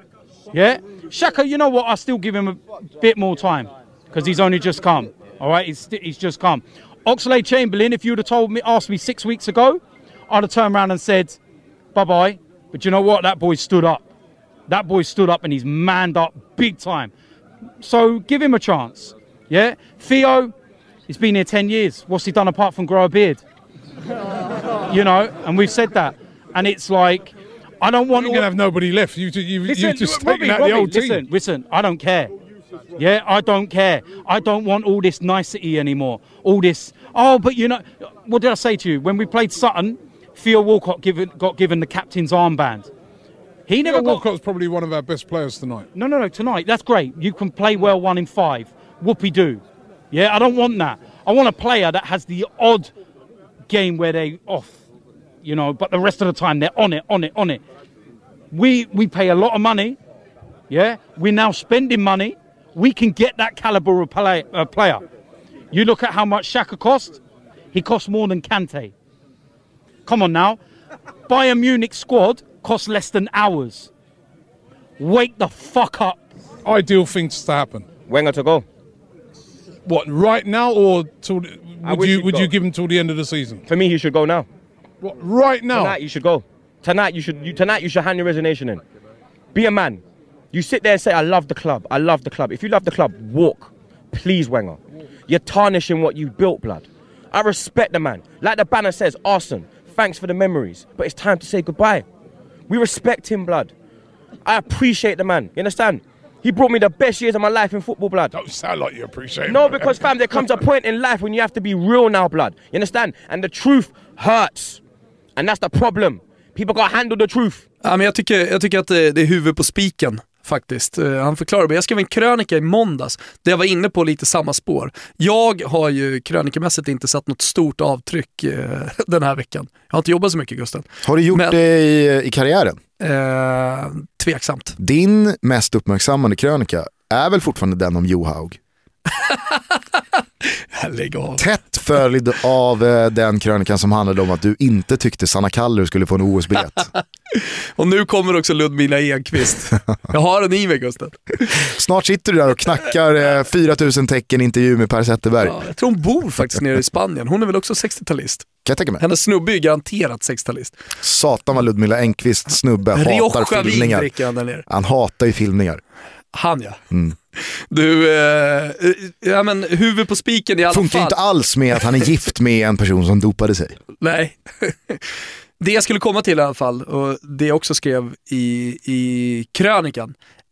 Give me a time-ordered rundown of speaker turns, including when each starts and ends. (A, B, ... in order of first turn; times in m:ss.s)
0:00.5-0:11.4 A
0:11.9-0:14.1 A
0:14.7-0:17.1 A
0:17.8-0:20.5 A
0:21.1-0:23.4 A
0:24.9-0:28.5 A
0:28.1-0:31.2 B
0:29.6-0:32.3 A
0:33.0-0:42.9 A
0:43.7-0:44.3 A
0:43.8-0:45.9 B
0:46.0-0:52.9 A
0:53.7-0:54.8 A
0:55.4-0:57.6 A
0:58.5-1:00.0 A
1:00.7-1:05.0 A
1:05.7-1:07.2 A
1:07.7-1:08.9 A
1:10.1-1:10.6 A
1:11.3-1:13.9 A
1:15.0-1:16.2 A
1:16.6-1:17.9 B
1:18.1-1:18.6 C
1:19.8-1:23.6 B
1:21.8-1:22.5 C
1:23.7-1:24.5 C
1:25.0-1:26.0 B
1:25.7-1:28.8 C
1:29.5-1:30.0 C
1:30.5-1:42.1 C
1:42.7-1:43.7 C
1:44.4-1:48.3 C
1:48.3-1:50.5 B
1:49.5-1:54.8 C
1:55.4-1:57.6 C
1:57.8-2:11.6 D
2:11.0-2:12.8 E
2:13.0-2:14.8 D
2:14.8-2:18.6 E
2:19.1-2:21.4 D
2:21.4-2:26.9 E
2:27.0-2:31.5 D
2:31.5-2:35.6 E
2:35.4-2:38.5 D
2:38.6-2:39.0 E
2:39.0-2:40.8 D
2:41.0-2:44.1 E
2:42.9-2:44.7 D
2:44.7-2:45.8 E
2:46.3-2:46.8 D
2:47.4-2:51.2 D
2:50.7-2:53.8 E
2:54.0-2:55.0 D
2:55.6-3:00.2 D